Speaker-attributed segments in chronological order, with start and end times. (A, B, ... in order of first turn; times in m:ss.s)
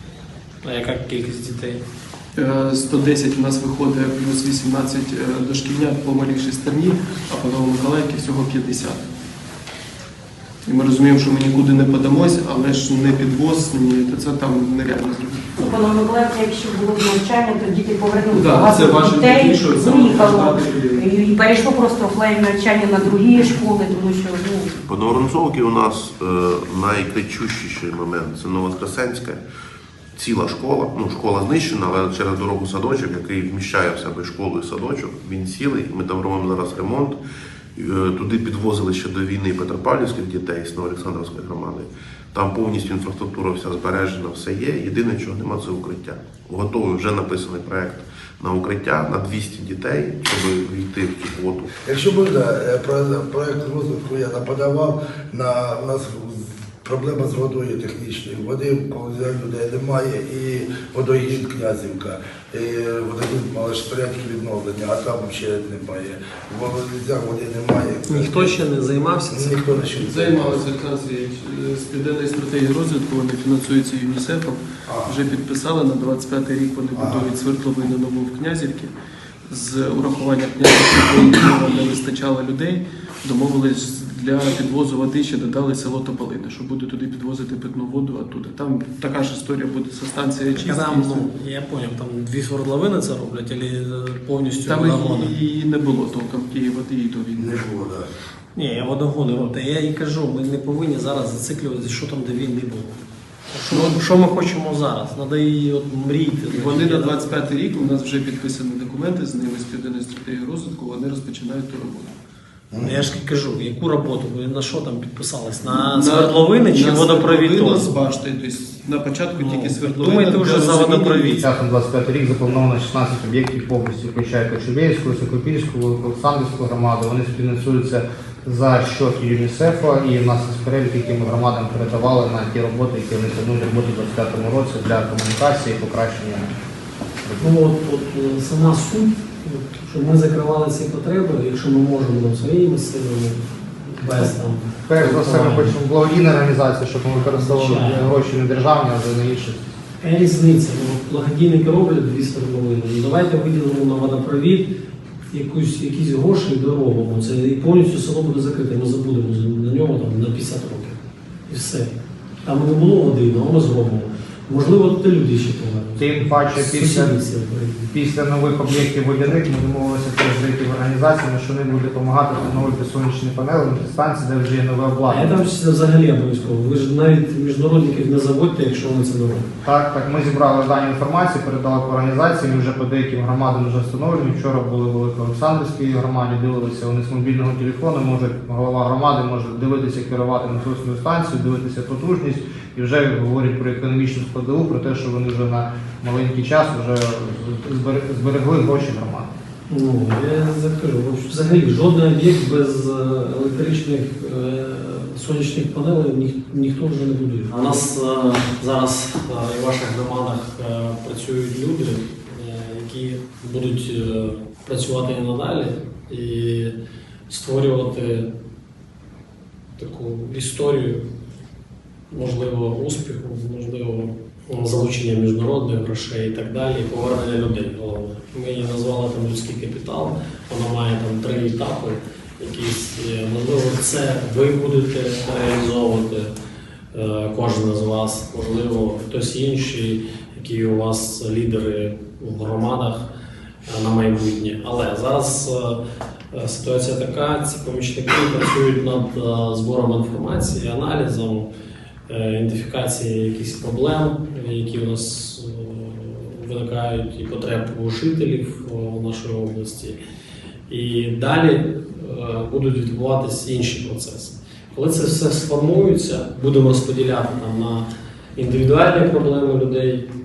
0:00.6-0:01.8 A
0:02.4-0:09.0 B
0:10.6-0:15.6 B
0:15.6-0:24.7 C
0:18.3-0:21.2 B
0:24.8-0:29.4 D
0:30.2-0:37.2 D
0:37.8-0:51.7 D
0:51.8-1:08.6 E
1:08.1-1:09.8 A
1:09.3-1:10.6 E
1:10.0-1:18.9 B
1:14.9-1:15.1 E
1:16.9-1:17.2 E
1:19.5-1:31.3 B
1:30.5-1:35.3 A
1:34.6-1:37.7 B
1:37.4-1:38.1 E
1:38.5-1:47.3 A
1:43.7-1:44.0 B
1:46.5-1:52.1 B
1:52.7-1:53.0 E
1:52.8-1:57.9 A
1:55.7-2:01.4 B
1:59.3-2:01.4 A
2:01.4-2:16.5 F
2:17.2-2:17.5 F
2:17.4-2:25.8 A
2:24.9-2:29.6 F
2:27.4-2:28.1 A
2:30.0-2:34.7 A
2:35.3-2:41.9 A
2:42.4-2:47.9 A
2:46.0-2:47.1 F
2:47.9-2:55.3 F
2:55.1-2:59.5 A
2:59.6-3:19.3 F
3:19.7-3:36.8 A
3:37.3-3:38.3 A
3:39.8-3:41.0 A
3:42.1-3:56.3 A
3:56.9-4:03.1 A
4:03.6-4:05.8 A
4:06.3-4:11.5 A
4:12.1-4:20.0 A
4:20.7-4:30.1 A